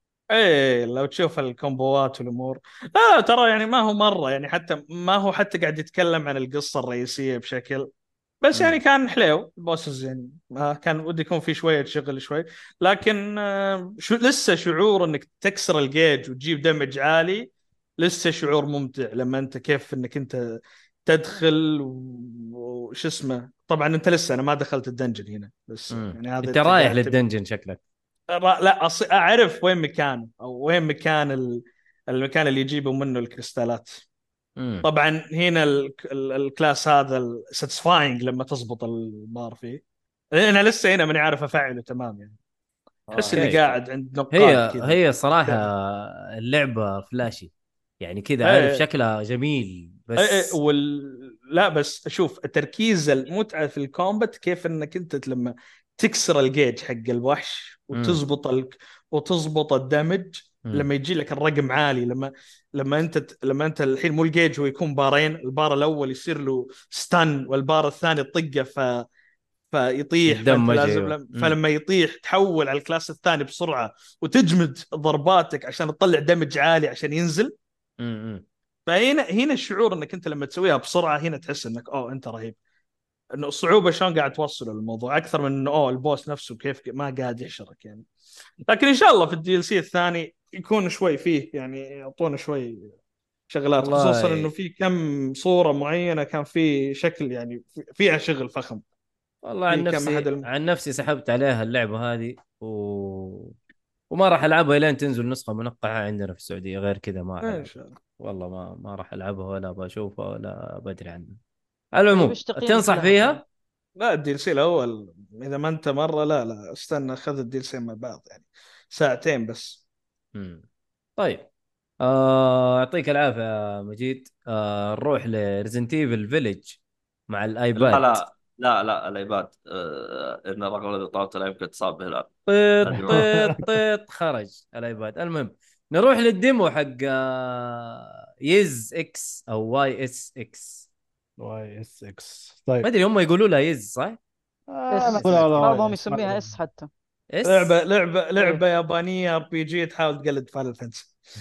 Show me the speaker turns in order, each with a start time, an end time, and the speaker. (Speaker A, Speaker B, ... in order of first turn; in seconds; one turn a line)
Speaker A: 0.3-7.9
Speaker A: 8.4-27.2
Speaker B: 8.5-8.8
Speaker B: 25.9-27.8
Speaker A: 28.3-34.0
Speaker B: 34.6-34.9
Speaker A: 34.8-39.8
Speaker A: 40.3-42.4
Speaker A: 43.1-45.7
Speaker B: 43.1-43.7
Speaker B: 44.3-50.6
Speaker A: 48.4-48.8
Speaker A: 50.2-69.1
Speaker B: 57.9-58.2
Speaker A: 69.7-77.5
Speaker B: 70.2-71.5
Speaker B: 78.0-78.4
Speaker A: 78.9-82.6
Speaker A: 83.3-88.0
Speaker A: 88.7-92.9
Speaker A: 93.5-98.8
Speaker B: 93.8-94.5
Speaker B: 99.4-103.5
Speaker A: 99.7-100.5
Speaker B: 104.1-111.4
Speaker A: 107.4-108.0
Speaker B: 111.9-113.4
Speaker C: 112.1-113.4
Speaker A: 114.0-119.8
Speaker B: 120.3-120.6
Speaker B: 121.2-121.5
Speaker B: 122.0-126.8
Speaker B: 127.3-128.2
Speaker D: 127.8-133.3
Speaker B: 132.5-140.9
Speaker E: 133.0-133.7
Speaker E: 141.4-142.9
Speaker B: 142.8-144.2
Speaker E: 144.7-146.6
Speaker C: 144.9-146.9
Speaker B: 145.1-145.8
Speaker B: 147.3-147.8
Speaker A: 147.4-151.1
Speaker C: 148.3-148.6